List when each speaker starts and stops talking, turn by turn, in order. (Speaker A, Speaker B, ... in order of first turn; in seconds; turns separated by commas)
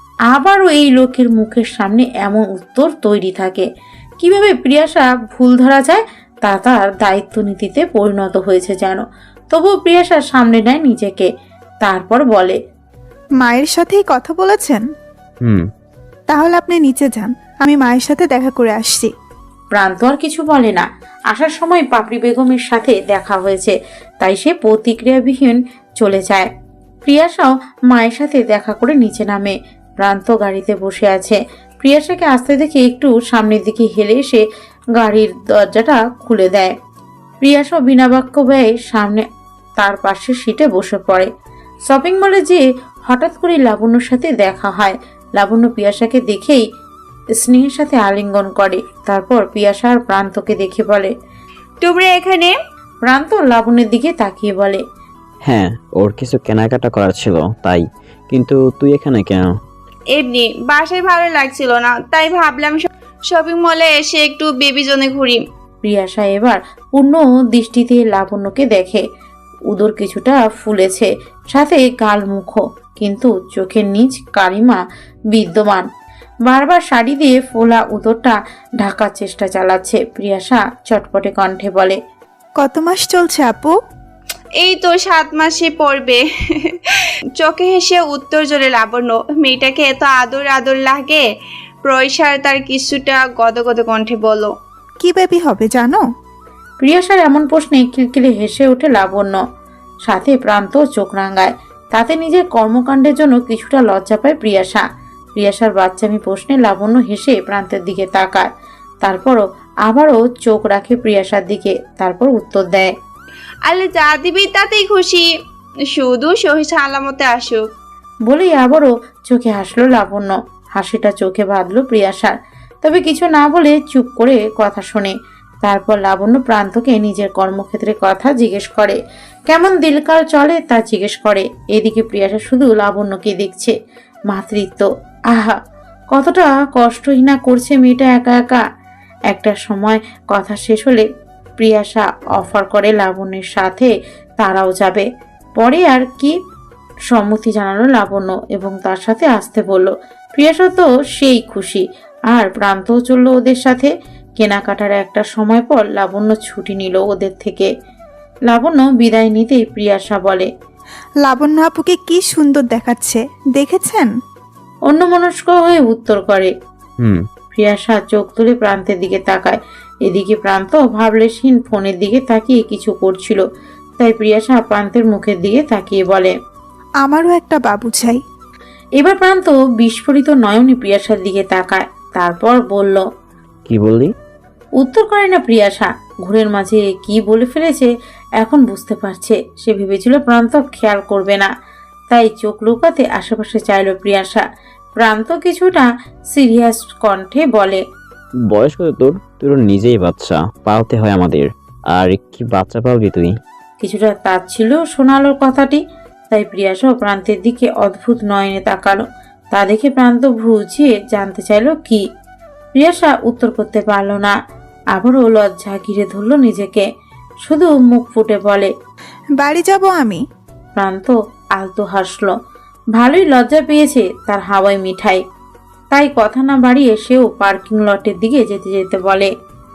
Speaker A: 0.3-3.6, Speaker A: 4.2-11.3, Speaker A: 11.8-12.6, Speaker B: 13.4-14.8, Speaker B: 16.3-19.1, Speaker A: 19.7-26.5, Speaker A: 27.0-34.4, Speaker A: 35.0-36.7, Speaker A: 37.4-39.2, Speaker A: 39.8-41.3, Speaker A: 41.9-46.6, Speaker A: 47.4-51.1, Speaker C: 51.8-52.5, Speaker A: 53.0-54.8, Speaker D: 55.5-59.5, Speaker C: 60.1-65.4, Speaker A: 65.8-69.0, Speaker A: 69.7-74.8, Speaker A: 75.3-75.8, Speaker A: 76.5-82.0, Speaker B: 82.6-83.7, Speaker C: 84.6-86.8, Speaker C: 87.4-91.2, Speaker C: 91.8-94.5, Speaker B: 95.0-96.0, Speaker A: 96.8-99.4, Speaker A: 100.0-104.8, Speaker A: 105.4-108.5, Speaker A: 109.0-112.9, Speaker C: 113.7-115.3, Speaker C: 115.9-117.6, Speaker A: 118.3-125.1, Speaker A: 125.6-129.0, Speaker A: 129.5-133.7, Speaker A: 134.3-135.6, Speaker A: 136.1-138.6, Speaker A: 139.3-141.0, Speaker A: 141.6-145.0, Speaker A: 145.6-146.3, Speaker A: 147.1-157.7, Speaker A: 158.5-160.5, Speaker B: 161.2-164.1, Speaker A: 164.9-166.5, Speaker A: 167.5-173.4, Speaker A: 174.0-176.3, Speaker B: 177.0-178.2, Speaker A: 179.0-183.0, Speaker D: 183.7-184.1, Speaker A: 184.8-191.5, Speaker A: 192.1-194.4, Speaker A: 195.0-197.8, Speaker D: 198.5-203.3, Speaker A: 203.8-205.8, Speaker A: 206.3-209.0, Speaker A: 209.5-212.0, Speaker A: 212.8-214.3, Speaker A: 214.9-216.8, Speaker A: 217.4-218.7, Speaker B: 219.4-220.2, Speaker A: 220.8-222.3, Speaker A: 223.0-225.2, Speaker A: 225.9-229.3